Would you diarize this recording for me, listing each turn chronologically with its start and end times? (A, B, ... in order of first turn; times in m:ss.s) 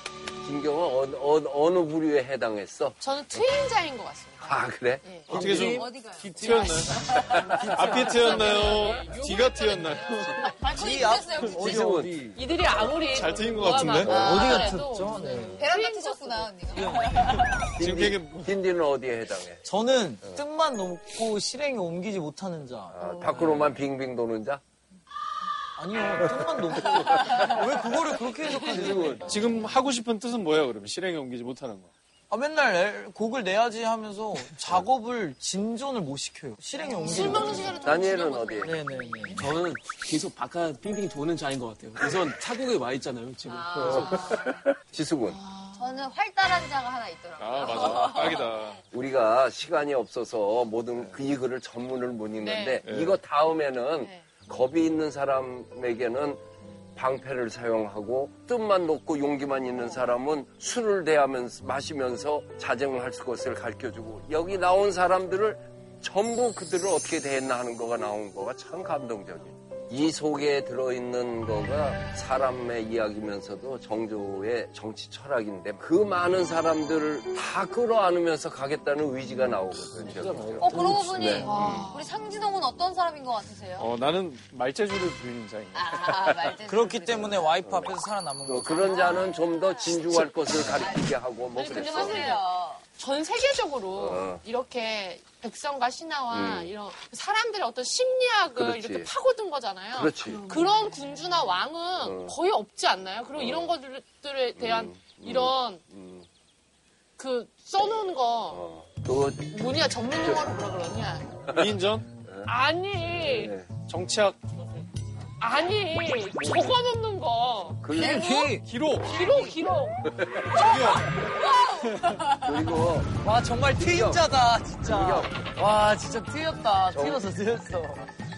0:00.4-0:03.0 A
0:03.0-0:05.3 B
0:04.4-0:05.7 A
0:05.3-0:10.5 C
0:05.3-0:06.8 D
0:05.3-0:09.1 E
0:07.2-0:07.6 A
0:07.9-0:10.6 B
0:10.5-0:11.9 E
0:10.7-0:12.4 D
0:11.5-0:12.4 A
0:12.4-0:17.0 B
0:13.0-0:14.2 C
0:14.0-0:14.6 A
0:14.0-0:15.7 D
0:14.1-0:14.7 E
0:15.6-0:17.7 E
0:16.7-0:17.5 D
0:17.8-0:19.6 A
0:17.8-0:18.6 C
0:19.6-0:23.0 D
0:22.9-0:24.6 A
0:23.3-0:23.7 C
0:25.8-0:29.2 D
0:28.6-0:29.3 A
0:28.9-0:31.9 C
0:32.3-0:37.8 D
0:36.9-0:38.1 E
0:37.0-0:38.8 B
0:37.8-0:38.8 A
0:38.6-0:39.6 D
0:39.4-0:44.1 F
0:43.5-0:44.6 E
0:43.9-0:44.6 C
0:44.9-0:45.4 A
0:45.3-0:45.8 B
0:45.8-0:48.8 E
0:47.4-0:48.8 C
0:48.9-0:56.4 A
0:52.4-0:52.8 B
0:52.8-0:53.2 C
0:57.0-1:21.9 A
1:20.0-1:21.5 C
1:20.6-1:23.9 E
1:21.4-1:22.2 B
1:23.8-1:26.6 C
1:25.7-1:27.5 E
1:26.6-1:29.3 D
1:27.6-1:32.4 A
1:28.9-1:32.8 E
1:31.6-1:32.4 B
1:33.0-1:45.8 B
1:34.0-1:34.4 A
1:36.3-1:36.7 A
1:38.5-1:39.1 A
1:39.9-1:40.5 A
1:42.0-1:42.4 A
1:43.4-1:43.8 A
1:44.6-1:46.3 A
1:47.2-1:48.6 B
1:48.5-1:49.5 A
1:49.5-1:51.4 B
1:51.5-1:52.5 A
1:51.5-1:52.1 C
1:52.5-1:53.5 B
1:53.1-1:53.7 A
1:53.8-1:54.4 C
1:55.4-1:58.5 B
1:57.8-1:58.4 A
1:57.9-1:59.6 D
1:58.4-1:59.3 C
1:59.1-2:00.1 B
2:00.1-2:00.7 A
2:00.5-2:01.2 C
2:01.2-2:02.3 E
2:02.3-2:03.2 A
2:03.2-2:08.0 D
2:03.7-2:04.3 A
2:04.8-2:05.4 A
2:06.9-2:07.3 A